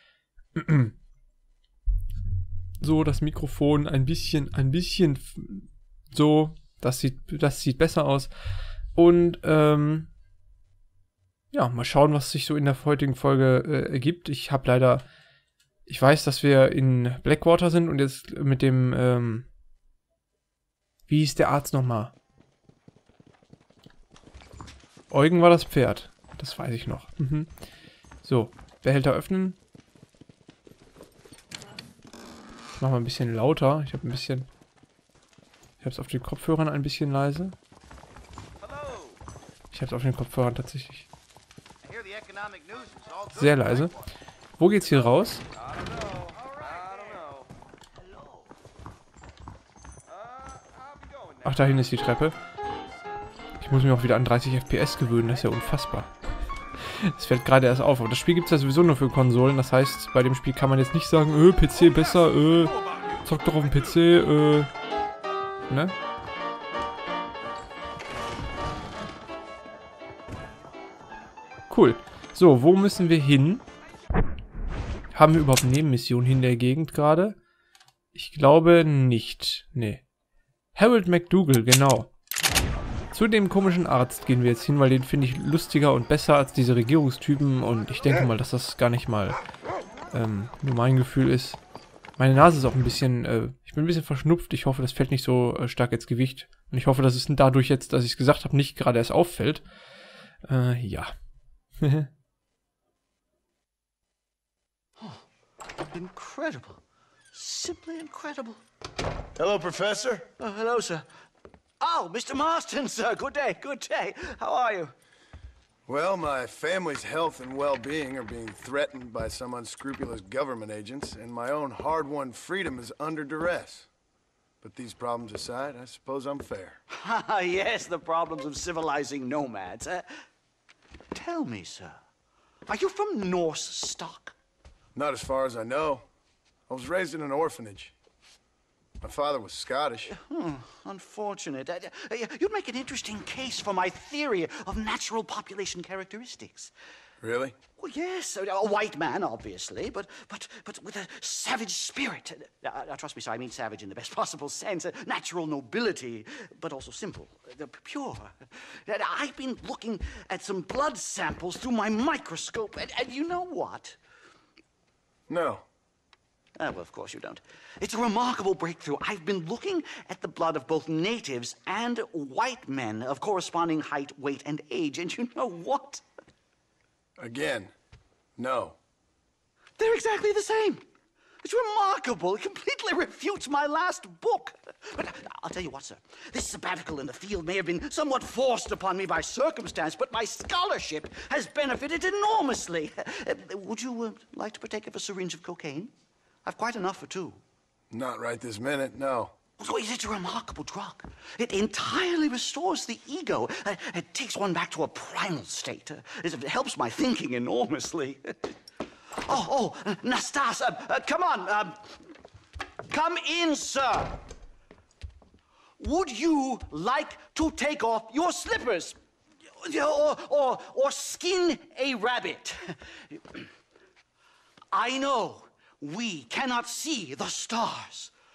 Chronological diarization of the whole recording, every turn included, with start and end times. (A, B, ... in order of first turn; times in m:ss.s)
0:00.6-0:01.0 A
0:02.8-0:08.3 A
0:09.0-0:10.1 A
0:11.5-0:15.0 A
0:15.9-0:19.5 A
0:21.1-0:22.1 A
0:25.1-0:27.5 A
0:28.2-0:29.6 A
0:32.8-0:34.5 A
0:35.8-0:37.6 A
0:39.7-0:41.1 A
0:41.9-0:43.2 B
0:43.3-0:44.0 A
0:44.6-0:45.4 A
0:51.4-0:52.4 A
0:53.6-0:56.1 A
0:56.8-1:04.7 A
1:05.7-1:06.0 A
1:11.7-1:13.6 A
1:15.1-1:17.4 A
1:18.1-1:20.0 A
1:20.8-1:22.1 A
1:23.1-1:29.4 A
1:30.1-1:31.6 A
1:32.2-1:39.6 A
1:40.4-1:41.1 A
1:41.8-1:42.1 A
1:45.9-1:46.8 B
1:47.3-1:48.6 B
1:49.4-1:50.3 C
1:50.4-1:51.1 B
1:51.8-1:54.9 B
1:55.9-2:03.9 C
2:04.6-2:06.8 C
2:06.9-2:10.1 B
2:11.1-2:12.0 B
2:12.7-2:14.4 B
2:15.0-2:16.0 C
2:16.7-2:17.9 C
2:19.0-2:20.1 C
2:20.1-2:26.7 B
2:27.2-2:27.6 C
2:27.8-2:44.0 B
2:45.3-2:45.6 C
2:46.6-2:56.0 B
2:57.2-2:57.7 C
2:58.4-2:58.8 C
2:59.8-3:00.8 B
3:01.4-3:15.9 B
3:16.4-3:17.4 B
3:17.9-3:19.3 C
3:19.6-3:28.5 B
3:29.2-3:32.0 B
3:32.9-3:34.2 B
3:35.8-3:39.0 B
3:39.6-3:43.5 B
3:44.7-3:48.1 B